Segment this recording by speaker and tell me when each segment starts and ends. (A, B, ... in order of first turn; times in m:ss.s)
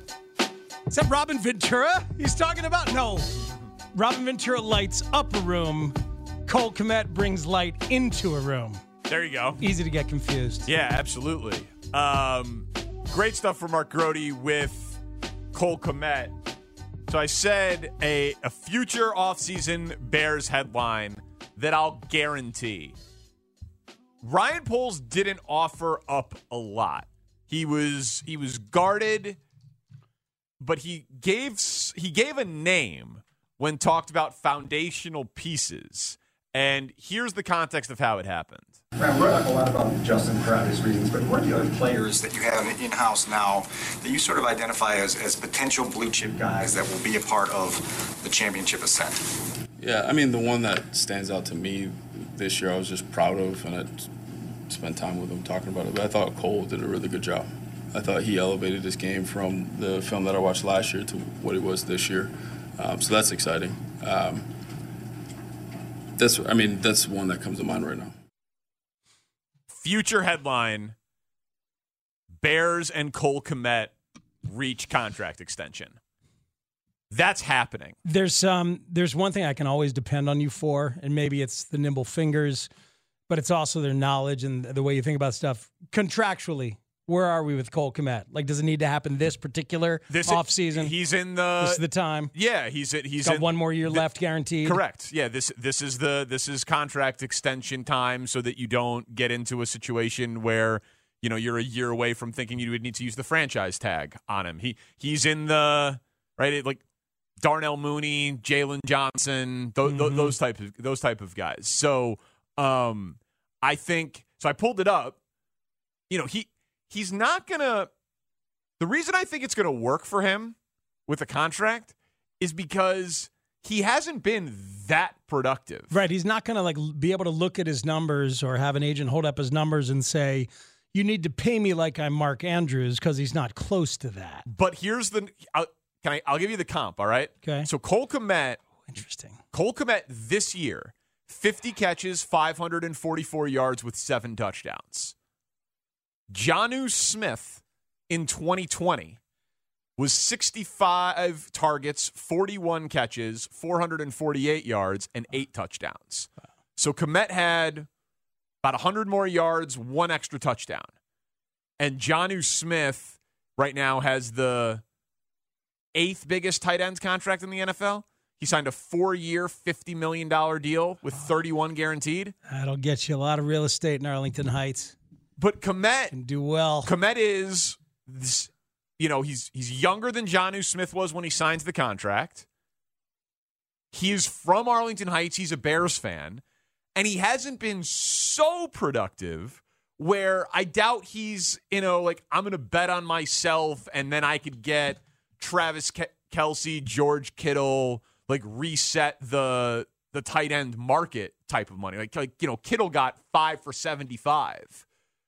0:00.9-0:03.3 A
0:04.0-0:08.8 A
0:09.1-0:09.6 B
0:09.6-0:10.7 A
0:10.7-0:15.0 B
0:15.5-0:16.3 B
0:17.1-0:23.0 B
0:24.2-0:29.4 B
0:30.6-0:38.8 B
0:39.0-0:49.4 C
0:49.8-0:54.1 D
0:54.7-1:04.5 D
1:06.2-1:08.2 D
1:09.7-1:10.9 B
1:12.4-1:13.9 B
1:14.4-1:16.0 B
1:17.1-1:18.0 B
1:18.0-1:22.7 A
1:23.3-1:31.0 A
1:30.1-1:46.8 B
1:31.6-1:32.3 A
1:33.2-1:34.8 A
1:47.4-1:55.2 B
1:49.8-1:50.3 A
1:56.1-1:57.9 B
1:58.8-2:00.6 B
2:01.1-2:06.0 B
2:05.9-2:14.4 A
2:14.5-2:18.6 B
2:17.4-2:17.7 A
2:18.9-2:19.4 A
2:19.5-2:25.1 B
2:26.3-2:29.2 B
2:30.0-2:37.9 B
2:38.6-2:40.9 B
2:41.8-2:44.8 B
2:46.0-2:52.3 B
2:52.5-2:55.0 A
2:55.4-2:56.2 B
2:56.1-2:56.9 A
2:56.8-3:02.4 B
3:03.9-3:06.4 B
3:07.0-3:24.8 B